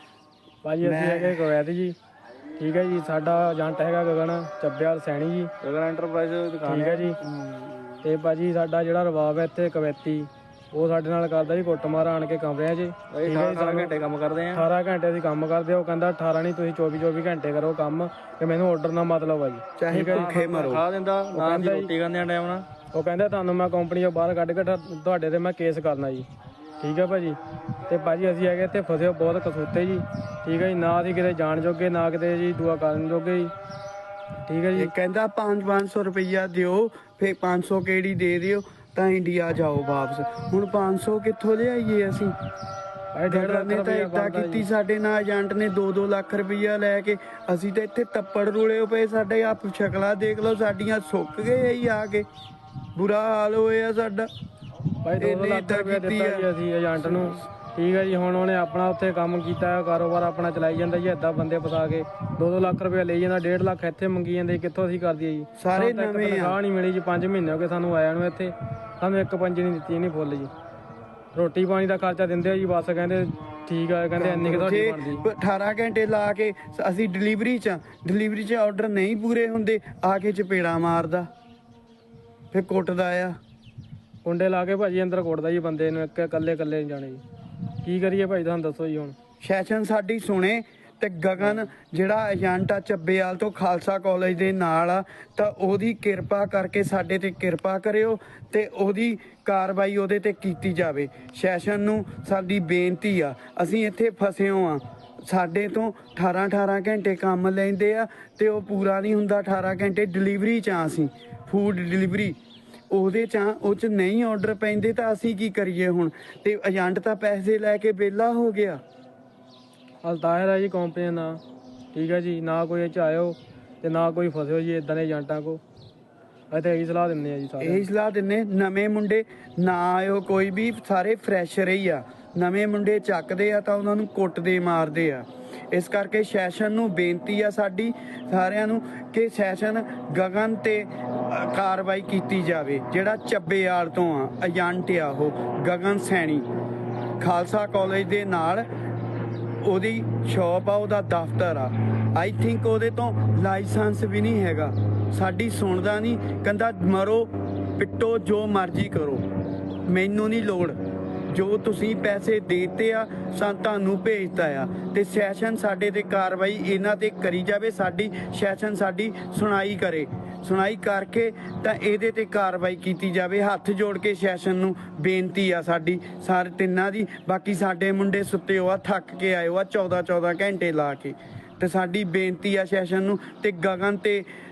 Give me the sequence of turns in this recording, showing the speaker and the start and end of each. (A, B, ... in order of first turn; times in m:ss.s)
0:00.6-0:01.9 A
0:00.8-0:01.5 B
0:02.6-0:05.5 A
0:05.6-0:07.2 C
0:06.6-0:07.2 A
0:08.0-0:13.9 A
0:13.1-0:14.6 C
0:14.5-0:20.3 A
0:19.8-0:20.8 B
0:19.9-0:22.7 C
0:21.3-0:21.9 A
0:22.9-0:26.2 A
0:26.8-0:33.5 A
0:34.4-0:34.9 A
0:34.7-0:42.3 B
0:43.1-0:44.7 A
0:43.3-0:52.3 B
0:52.9-0:54.3 B
0:55.0-1:10.5 A
0:55.2-0:56.5 B
0:57.0-0:57.4 B
1:05.6-1:06.6 B
1:11.3-1:15.2 A
1:14.2-1:21.3 B
1:22.5-1:23.4 B
1:24.2-1:27.2 A
1:27.8-1:29.1 A
1:29.4-1:52.4 B
1:52.9-1:58.8 B
2:00.0-2:01.4 A
2:01.9-2:05.6 A
2:06.5-2:07.8 A
2:07.6-2:26.4 B
2:27.2-2:28.6 B
2:29.6-2:39.2 B
2:39.9-2:40.8 B
2:41.3-3:04.3 B